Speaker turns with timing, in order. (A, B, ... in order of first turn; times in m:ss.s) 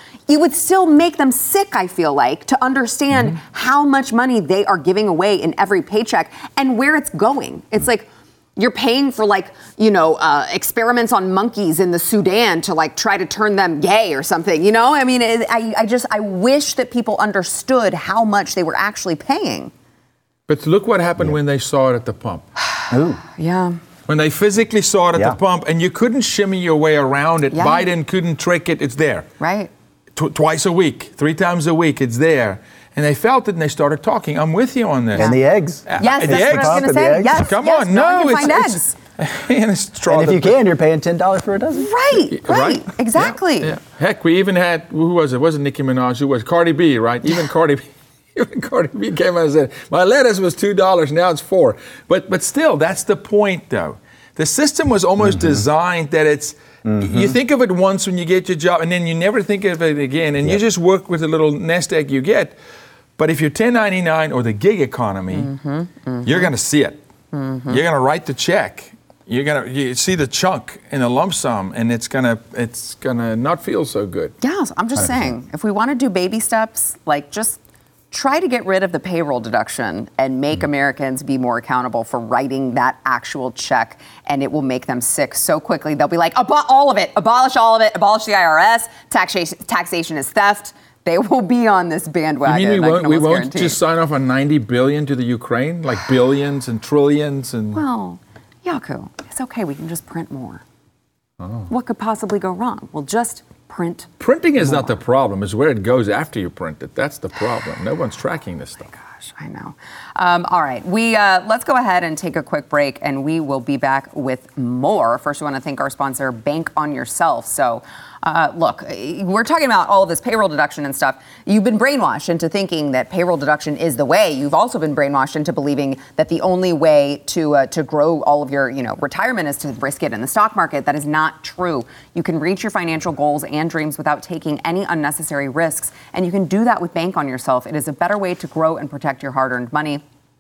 0:00.3-0:19.7 A
0:20.5-0:22.5 B
0:22.7-0:23.8 A
0:22.9-0:23.2 C
0:24.1-0:29.3 B
0:27.5-0:27.9 A
0:29.4-0:29.7 A
0:30.2-0:35.3 B
0:35.1-0:37.5 C
0:35.9-0:40.6 B
0:36.0-0:39.0 A
0:40.1-0:41.9 C
0:41.8-0:43.8 A
0:42.3-1:02.6 B
0:55.2-0:55.7 C
0:56.8-0:57.4 C
1:03.2-1:05.5 B
1:05.3-1:06.5 A
1:06.2-1:07.0 B
1:07.3-1:07.8 A
1:07.7-1:14.4 B
1:14.4-1:17.6 A
1:15.0-1:15.3 C
1:18.1-1:33.8 A
1:32.4-1:37.8 B
1:37.7-1:40.6 A
1:41.4-1:41.7 B
1:41.7-1:44.1 A
1:44.2-1:48.9 B
1:44.6-1:44.9 A
1:49.1-2:20.0 A